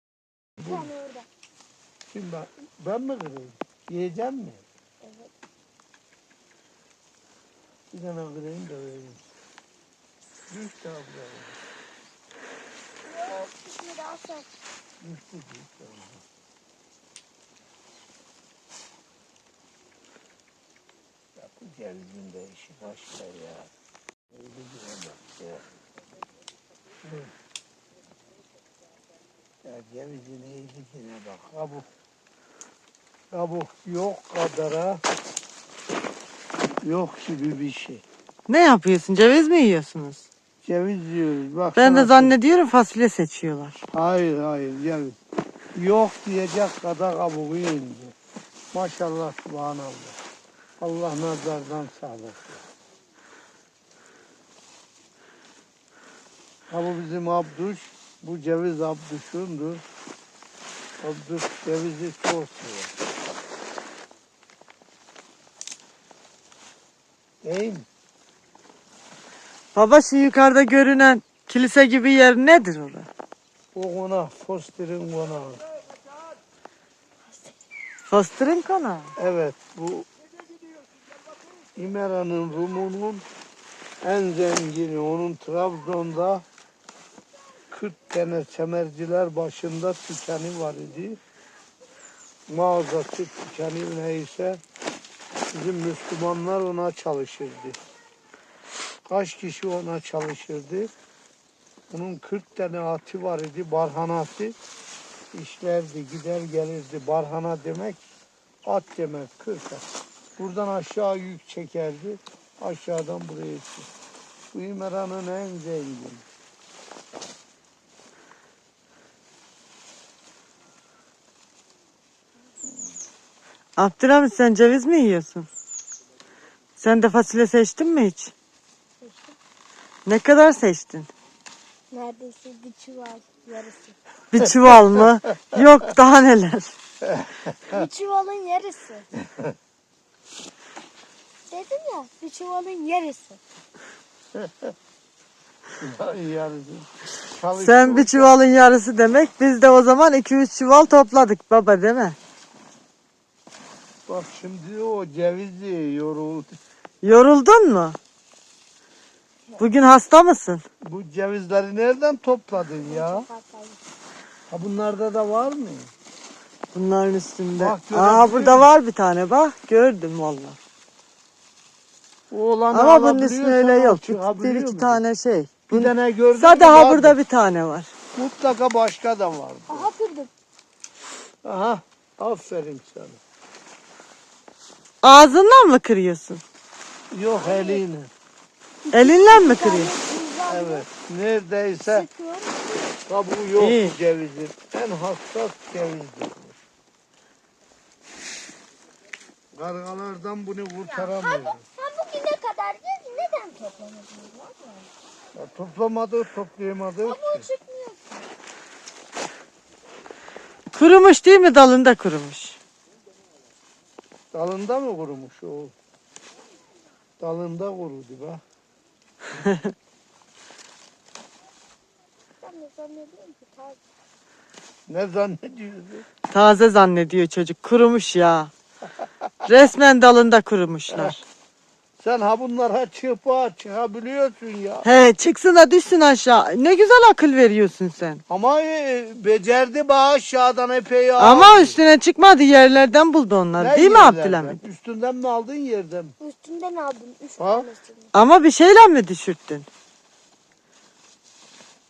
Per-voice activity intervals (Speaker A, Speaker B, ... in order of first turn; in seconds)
Speaker A: 0.6-0.9, 2.1-4.6, 7.9-9.2, 10.5-11.6, 15.0-16.2, 21.4-23.7, 24.3-25.6, 27.0-27.3, 29.6-31.9, 33.3-35.0, 36.8-38.0, 40.6-42.4, 43.9-45.2, 45.8-48.1, 48.7-50.2, 50.8-52.6, 56.7-59.8, 61.0-62.9, 67.4-67.9, 73.7-75.6, 79.2-80.1, 81.8-83.2, 84.0-86.5, 87.7-91.2, 92.5-94.6, 95.5-97.8, 99.1-100.9, 101.9-104.6, 105.3-108.1, 108.7-109.8, 110.4-113.9, 114.5-116.2, 137.0-137.8, 144.3-144.7, 145.8-148.3, 154.1-156.6, 160.8-163.3, 164.5-165.9, 167.6-168.7, 172.3-175.0, 175.7-177.2, 178.2-179.9, 181.4-183.2, 187.1-188.1, 190.5-192.1, 193.1-196.6, 199.6-201.6, 205.3-207.5, 214.3-215.7, 217.2-218.4, 224.9-226.1, 229.0-229.5, 232.0-234.9, 238.3-241.8, 243.6-246.2, 247.4-247.7
Speaker B: 0.6-1.3, 5.0-5.3, 13.1-14.5, 129.0-129.3, 131.9-134.0, 137.7-139.1, 141.5-143.4, 162.8-163.8, 179.7-180.3, 187.4-187.8, 188.8-190.8, 191.8-193.0, 200.9-204.9, 207.1-208.2, 222.4-223.8, 246.2-248.1
Speaker C: 38.5-40.3, 41.8-43.8, 69.8-73.1, 78.1-79.2, 123.8-125.5, 126.8-128.3, 130.1-131.1, 134.3-136.8, 147.6-152.2, 157.0-158.0, 159.6-160.6, 166.7-170.6, 172.7-177.9, 185.0-186.4, 188.9-189.9, 193.6-194.0, 210.7-212.6, 226.3-228.5, 229.4-231.2, 234.8-238.2, 241.2-244.6, 248.1-249.7